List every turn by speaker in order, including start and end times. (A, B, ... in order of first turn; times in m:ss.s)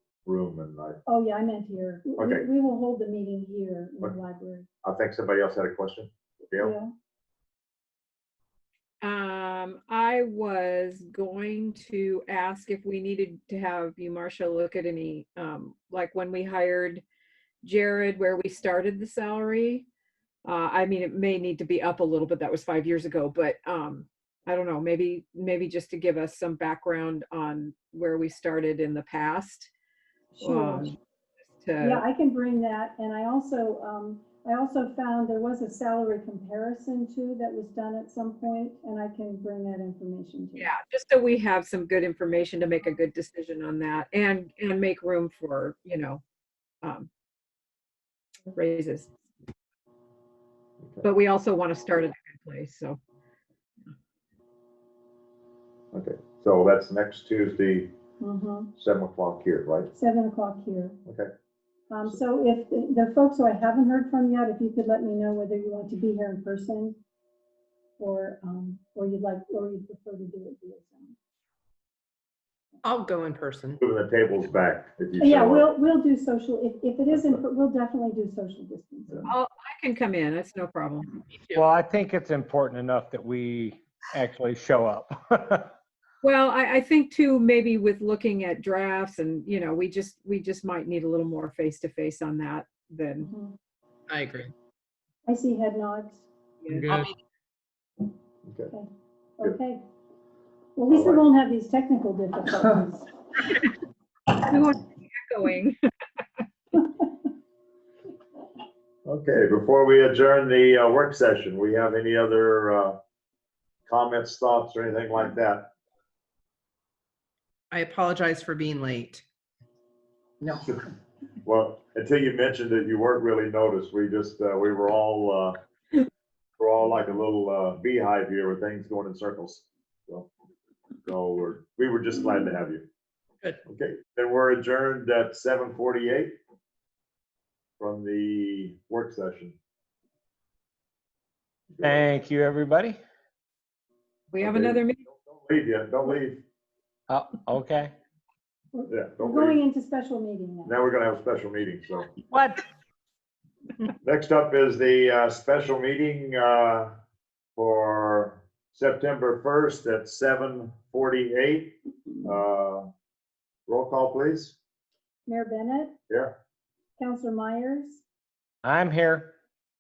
0:00.3-0:01.0 A
0:01.1-0:04.7 B
0:02.2-0:02.4 A
0:04.8-0:06.7 A
0:06.5-0:06.9 B
0:09.0-0:17.0 C
0:17.6-0:19.9 C
0:20.4-0:29.7 C
0:30.3-0:30.9 B
0:30.4-0:31.0 C
0:31.6-0:32.0 C
0:31.8-0:40.7 B
0:40.6-0:46.2 C
0:46.8-0:47.1 C
0:48.5-0:49.1 C
0:51.0-0:53.0 C
0:55.9-0:57.9 A
0:58.2-0:58.7 B
0:58.8-0:59.9 A
0:59.9-1:01.0 B
1:01.0-1:01.3 A
1:01.9-1:07.0 B
1:08.0-1:11.2 B
1:12.8-1:13.8 D
1:13.8-1:15.7 A
1:15.2-1:19.3 B
1:19.3-1:21.2 C
1:21.3-1:21.7 D
1:21.6-1:25.7 E
1:26.2-1:33.3 C
1:33.2-1:33.6 B
1:34.1-1:34.5 D
1:35.3-1:36.2 B
1:36.6-1:37.0 C
1:36.9-1:37.1 D
1:38.5-1:38.7 A
1:38.7-1:39.8 B
1:40.8-1:43.1 B
1:40.9-1:41.3 A
1:44.4-1:45.8 C
1:49.1-1:53.0 A
1:53.9-1:55.7 A
1:57.7-1:59.2 D
2:00.4-2:00.7 D
2:01.4-2:05.6 A
2:06.6-2:10.3 A
2:11.1-2:12.8 A
2:13.7-2:16.4 A
2:17.8-2:19.6 A
2:21.7-2:22.1 A
2:21.8-2:23.0 E
2:24.3-2:25.0 C
2:24.4-2:26.4 A
2:27.1-2:27.9 E
2:28.7-2:30.8 B
2:28.9-2:29.6 A
2:30.7-2:32.1 A
2:32.2-2:32.6 E
2:34.0-2:36.9 A
2:37.6-2:42.9 A
2:43.7-2:44.6 A
2:45.3-2:45.9 B
2:47.0-2:48.0 B
2:48.6-2:49.3 E